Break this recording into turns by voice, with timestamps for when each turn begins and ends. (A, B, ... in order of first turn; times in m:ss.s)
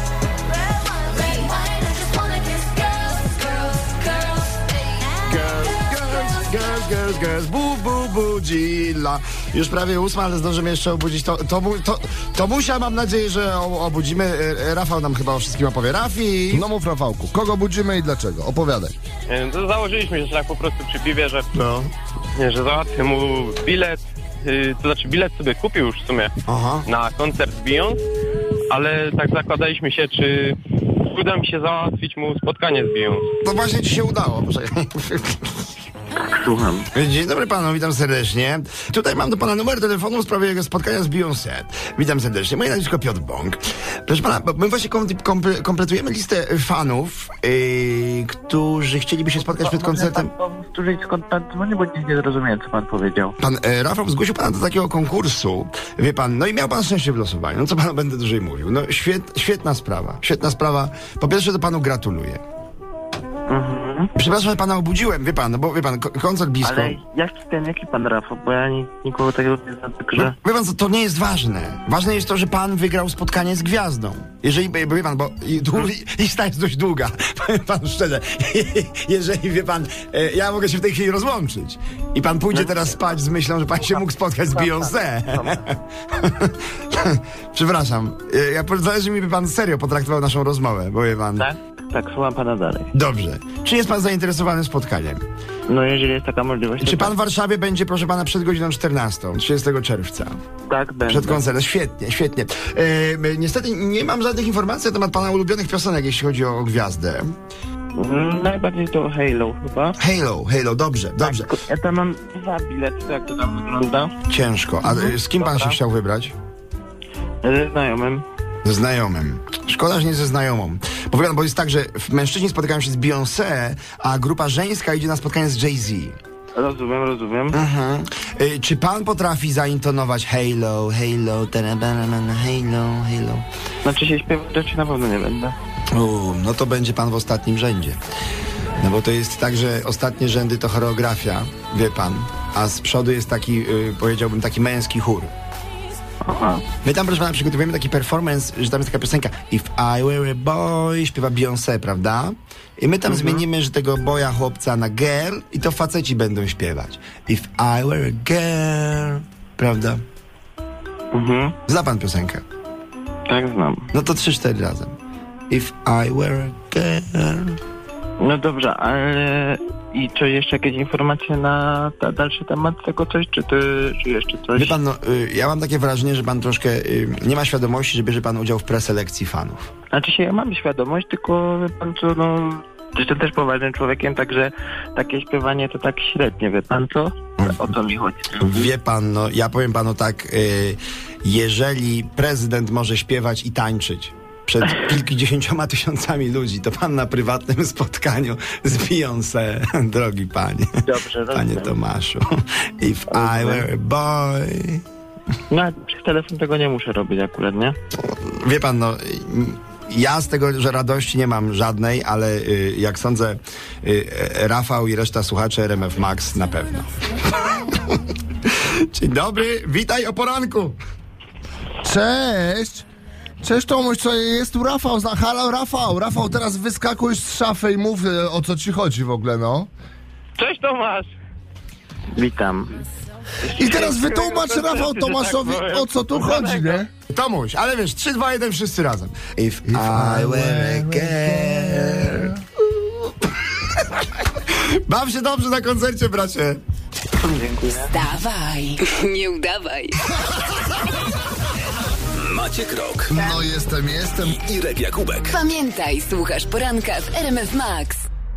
0:00.7-0:05.2 A
0:05.2-0:16.6 B
0:16.5-0:18.9 C
0:19.3-0:21.5 D
0:21.5-0:21.9 B
0:22.4-0:26.3 D
0:26.5-0:26.9 B
0:26.8-0:28.0 D
0:28.7-0:30.6 D
0:31.1-0:33.2 D
0:33.4-0:35.5 B
0:36.2-0:36.9 E
0:36.9-0:50.3 B
0:49.4-0:53.3 E
0:53.4-1:02.4 B
1:03.5-1:04.1 E
1:04.2-1:07.0 B
1:06.6-1:10.3 E
1:10.1-1:31.5 B
1:22.5-1:23.0 E
1:23.8-1:25.6 E
1:31.4-1:32.9 E
1:32.9-1:35.2 B
1:35.7-1:37.1 E
1:36.8-1:40.4 B
1:40.7-1:41.4 E
1:41.1-1:47.2 B
1:48.0-1:50.0 E
1:50.0-1:51.5 B
1:51.2-1:54.1 E
1:54.3-1:56.3 B
1:54.8-1:55.8 E
1:57.4-1:58.2 E
1:58.6-2:06.1 B
2:06.5-2:07.6 E
2:07.5-2:13.4 B
2:13.8-2:15.5 E
2:15.9-2:18.0 B
2:18.8-2:25.3 B
2:26.2-2:26.6 E
2:26.8-2:40.0 B
2:33.1-2:33.4 E
2:41.1-2:41.6 E
2:41.7-2:42.4 B
2:43.3-2:43.8 E
2:43.9-2:44.9 B
2:45.5-2:47.6 B
2:48.2-2:54.7 E
2:54.6-2:59.7 B
2:59.9-3:08.7 E
3:08.4-3:20.7 B
3:20.8-3:21.7 E
3:21.3-3:24.8 B
3:23.1-3:23.6 E
3:25.5-3:27.7 E
3:28.0-3:36.8 B
3:37.5-3:37.9 B
3:38.4-3:40.8 B
3:41.8-3:42.8 C
3:43.4-3:49.7 C
3:50.4-3:51.0 D
3:50.6-3:51.0 E
3:52.1-3:52.7 E
3:53.5-3:56.8 D
3:53.6-3:56.9 C
3:57.1-4:02.3 B
3:59.7-4:02.3 C
4:04.5-4:06.6 B
4:07.2-4:08.0 E
4:07.9-4:10.0 A
4:12.2-4:13.2 F
4:13.1-4:14.4 C
4:14.2-4:15.4 F
4:15.3-4:18.1 A